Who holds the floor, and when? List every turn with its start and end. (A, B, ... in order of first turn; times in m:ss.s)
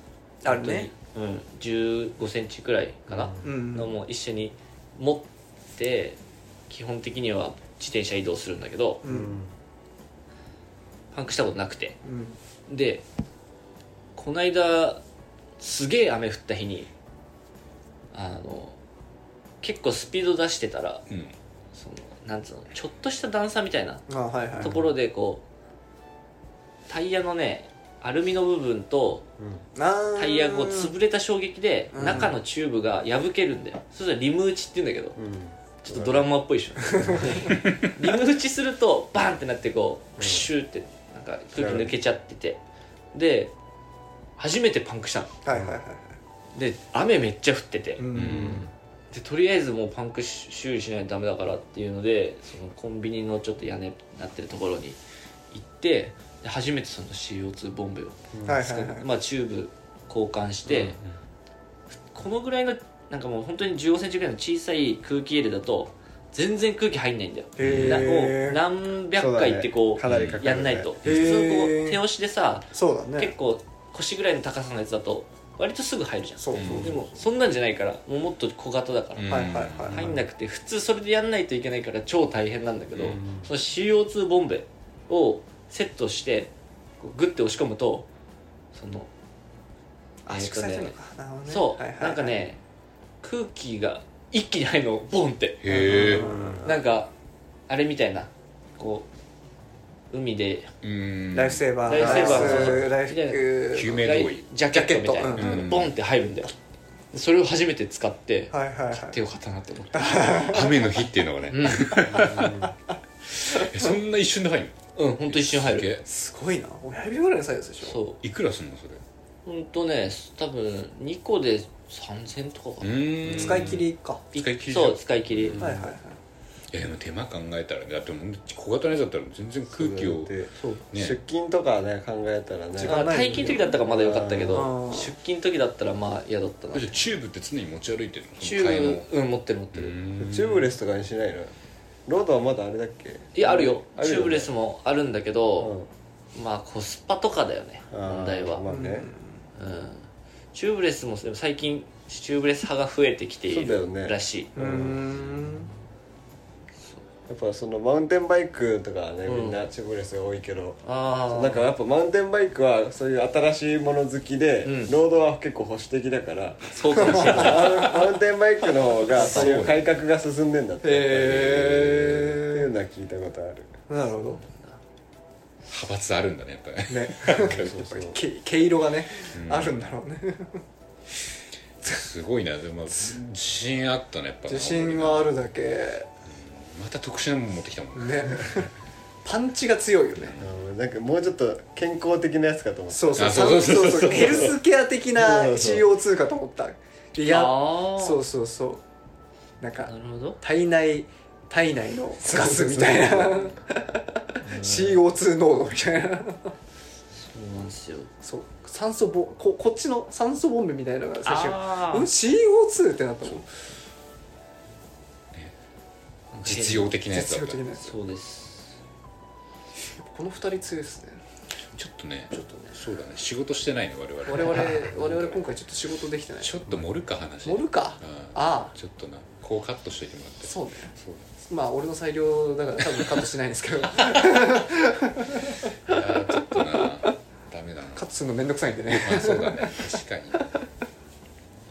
0:00.4-0:00.9 A
0:00.5-0:09.0 B
0:03.1-0:03.6 C
0:03.4-0:04.0 A
0:09.0-0:09.4 A
0:09.0-0:09.5 C
0:11.1-0:12.0 B
0:12.0-0:12.4 A
0:12.7-0:13.0 B
0:14.2-0:15.0 B
0:15.6-0:16.9 B
0:18.1-0:18.8 B
0:19.6-0:21.0 B
0:21.1-0:21.4 D
0:21.7-0:24.0 B
0:24.1-0:24.8 A
0:24.6-0:25.4 B
0:26.9-0:29.3 B
0:29.4-0:29.7 C
0:29.7-0:30.9 A
0:30.2-0:35.2 B
0:31.9-0:32.4 A
0:32.0-0:32.4 C
0:35.2-0:37.6 C
0:35.8-0:42.6 B
0:36.9-0:37.5 A
0:40.2-0:40.5 C
0:41.6-0:42.0 C
0:43.1-0:43.5 B
0:44.4-0:45.4 B
0:45.4-0:46.2 A
0:45.5-0:45.8 C
0:46.5-0:48.6 B
0:48.0-0:48.7 A
0:48.1-0:48.7 D
0:48.2-0:48.7 C
0:49.1-0:55.0 B
0:55.5-1:01.0 B
0:58.3-0:58.7 C
0:58.4-0:59.0 A
1:00.7-1:01.0 C
1:02.1-1:28.1 B
1:07.6-1:08.6 A
1:07.6-1:08.1 D
1:07.7-1:08.2 C
1:09.2-1:10.9 C
1:10.0-1:10.4 D
1:11.0-1:12.0 A
1:11.0-1:11.3 D
1:12.7-1:13.3 A
1:16.4-1:17.0 A
1:16.6-1:16.9 D
1:19.2-1:20.1 D
1:19.3-1:20.0 A
1:20.0-1:20.2 C
1:23.0-1:23.5 C
1:28.7-1:29.1 B
1:30.2-1:32.4 A
1:30.3-1:31.0 B
1:31.5-1:32.6 B
1:33.2-1:35.9 B
1:35.6-1:36.3 D
1:35.7-1:36.6 A
1:35.9-1:36.8 C
1:36.6-1:37.1 B
1:37.7-1:39.1 B
1:40.1-1:40.7 B
1:40.8-1:42.5 D
1:41.3-1:44.1 A
1:41.8-1:46.6 B
1:42.0-1:42.9 C
1:43.7-1:44.5 D
1:44.7-1:45.7 A
1:45.4-1:45.9 D
1:47.1-1:50.3 B
1:48.5-1:49.2 A
1:49.9-1:51.0 A
1:50.2-1:52.6 D
1:51.5-1:52.2 B
1:52.1-1:52.7 C
1:52.2-1:52.7 A
1:53.3-1:56.0 D
1:55.0-1:55.9 B
1:56.1-1:58.0 A
1:57.8-1:58.2 B
1:58.2-1:59.0 D
1:59.4-2:03.5 B
2:02.8-2:05.6 D
2:03.2-2:04.2 A
2:04.3-2:05.6 B
2:05.5-2:05.9 C
2:05.6-2:06.2 A
2:06.7-2:10.3 D
2:09.7-2:14.7 C
2:10.6-2:10.8 B
2:10.9-2:11.2 D
2:12.8-2:13.7 A
2:12.8-2:17.1 B
2:14.5-2:15.1 A
2:16.7-2:19.1 D
2:18.4-2:20.0 B
2:19.7-2:20.7 D
2:20.2-2:21.5 C
2:22.1-2:24.5 C
2:23.4-2:25.7 B
2:25.6-2:25.9 C
2:26.3-2:28.6 B
2:27.9-2:29.1 C
2:28.7-2:29.5 A
2:29.6-2:34.5 B
2:33.5-2:35.2 C
2:34.6-2:35.7 A
2:37.3-2:53.7 C
2:39.3-2:39.6 B
2:40.8-2:41.7 B
2:44.6-2:44.9 B
2:46.7-2:48.0 B
2:47.0-2:47.5 A
2:47.5-2:48.1 D
2:49.1-2:49.7 B
2:49.2-2:49.8 D
2:49.2-2:49.7 A
2:50.8-2:52.7 A
2:53.9-2:54.4 A
2:54.3-2:54.8 B
2:55.7-2:57.8 D
2:56.9-3:00.6 A
2:57.4-2:58.2 C
2:59.3-2:59.8 D
3:01.8-3:05.4 D
3:04.5-3:06.1 A
3:06.3-3:08.6 D
3:08.0-3:08.7 A
3:09.2-3:10.4 A
3:10.2-3:10.5 D
3:10.4-3:14.5 C
3:12.9-3:18.8 A
3:13.2-3:14.6 D
3:15.2-3:15.9 C
3:17.2-3:18.2 B
3:19.6-3:26.6 A
3:19.8-3:20.4 B
3:22.2-3:23.5 C
3:24.4-3:25.0 B
3:27.1-3:28.1 B
3:28.2-3:33.5 A
3:31.2-3:32.1 B
3:36.3-3:36.9 B
3:36.4-3:37.6 D
3:37.1-3:37.9 A
3:37.8-3:38.8 B
3:39.8-3:41.2 A
3:41.8-3:45.4 D
3:42.3-3:42.7 B
3:44.3-3:46.6 A
3:46.4-3:51.3 D
3:47.4-3:48.7 A
3:50.4-3:51.0 A
3:51.5-3:57.1 A
3:52.9-3:53.1 D
3:55.8-3:58.1 D
3:58.0-4:00.0 A
3:58.9-4:00.6 D